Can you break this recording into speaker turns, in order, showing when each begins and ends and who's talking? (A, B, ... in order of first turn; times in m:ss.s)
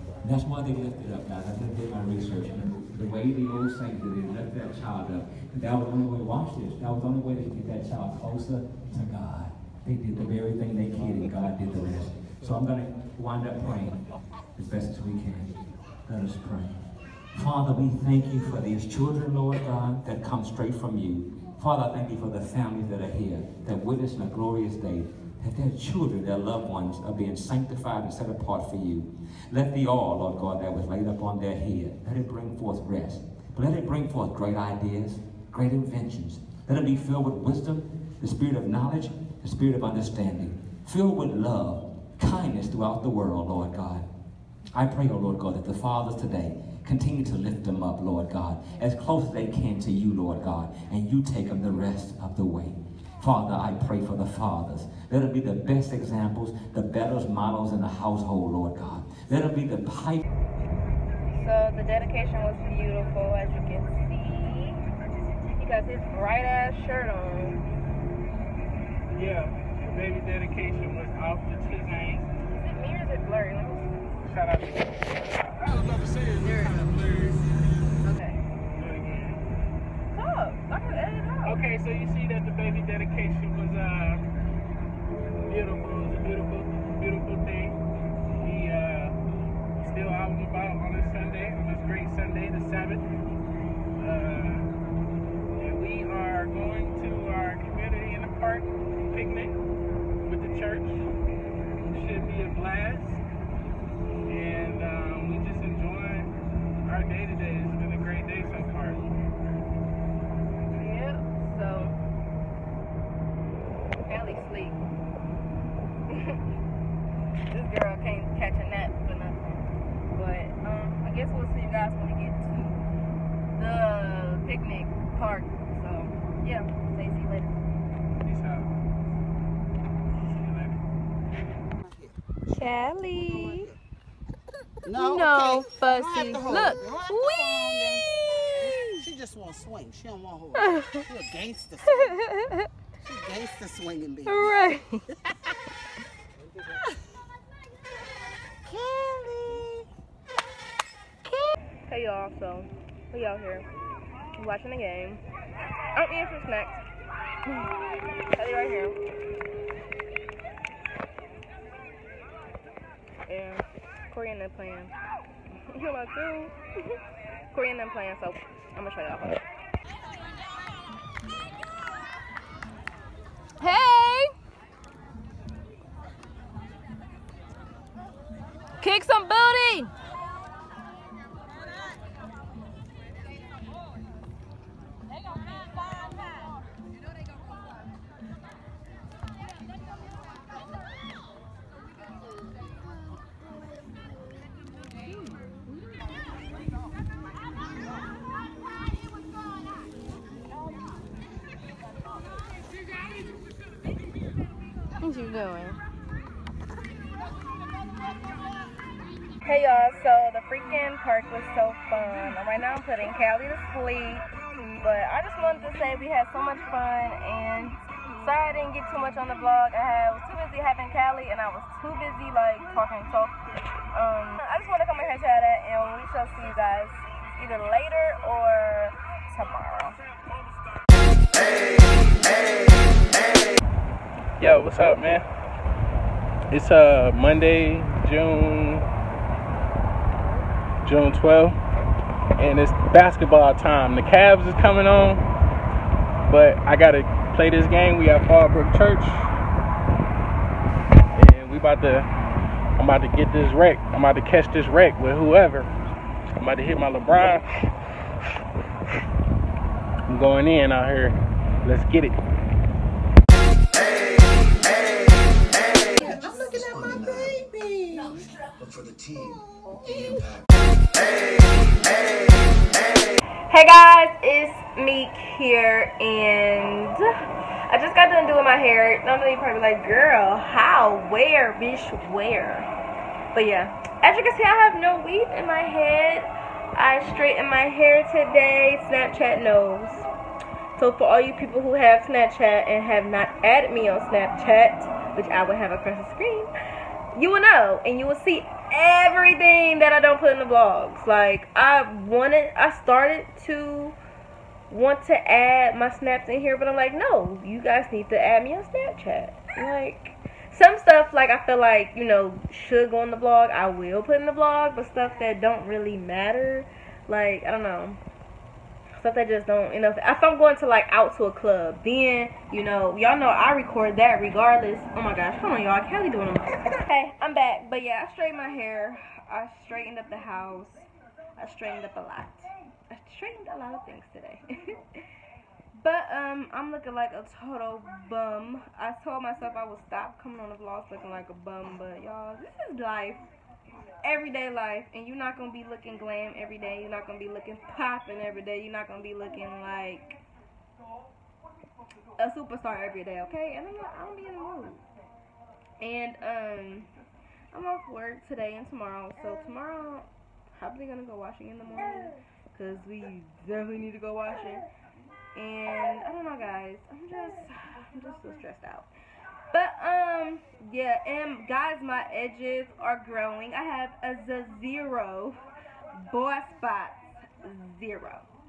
0:00.2-0:14.0 A
0:14.6-0:16.8 A
0:17.3-0:44.1 A
0:44.7-1:00.2 A
1:01.3-1:04.8 B
1:05.6-1:07.6 B
1:09.1-1:12.3 C
1:12.5-1:14.0 B
1:14.2-1:17.4 C
1:16.4-1:16.8 B
1:18.0-1:18.4 B
1:18.7-1:19.4 C
1:20.1-1:21.6 B
1:21.4-1:24.2 C
1:25.5-1:27.8 C
1:28.3-1:29.2 C
1:29.8-1:33.0 C
1:34.0-1:34.7 C
1:35.6-1:39.6 C
1:40.2-1:41.1 C
1:41.8-1:43.2 C
1:44.3-1:46.3 C
1:46.8-1:49.0 C
1:50.8-1:52.0 B
1:54.0-1:54.8 B
1:56.1-1:56.4 B
1:57.5-2:02.9 B
2:03.5-2:07.5 B
2:08.2-2:08.7 C
2:10.1-2:10.8 C
2:11.8-2:13.8 D
2:12.5-2:13.7 B
2:14.8-2:22.2 D
2:15.0-2:17.5 B
2:18.3-2:19.1 B
2:20.6-2:21.1 B
2:21.9-2:22.7 B
2:23.0-2:24.5 D
2:24.3-2:25.1 B
2:28.6-2:29.9 D
2:31.3-2:33.7 B
2:34.4-2:35.2 B
2:35.9-2:36.8 B
2:37.5-2:37.7 B
2:38.3-2:39.0 B
2:43.3-2:44.9 B
2:45.7-2:47.0 B
2:47.5-2:49.4 B
2:53.6-2:54.3 B
2:58.8-2:59.9 B
3:15.1-3:15.6 B
3:25.0-3:25.8 B
3:29.4-3:43.4 B
3:43.9-3:50.0 B
3:54.4-3:55.3 C
3:56.5-3:58.9 C
4:00.8-4:01.6 C
4:02.4-4:05.2 C
4:06.3-4:09.3 C
4:11.2-4:12.1 C
4:12.8-4:15.7 C
4:16.4-4:17.5 C
4:20.1-4:22.2 C
4:26.0-4:28.1 B
4:26.0-4:30.5 D
4:33.5-4:37.0 B
4:37.7-4:42.7 B
4:43.3-4:50.1 B
4:50.8-4:56.5 B
4:57.1-5:04.0 B
5:04.7-5:18.0 B
5:19.0-5:35.0 B
5:35.8-5:43.2 B
5:44.0-5:50.2 B
5:52.2-5:54.8 B
5:55.8-5:56.9 B
5:57.5-6:04.6 B
6:05.4-6:08.9 B
6:09.5-6:15.4 B
6:16.0-6:18.3 B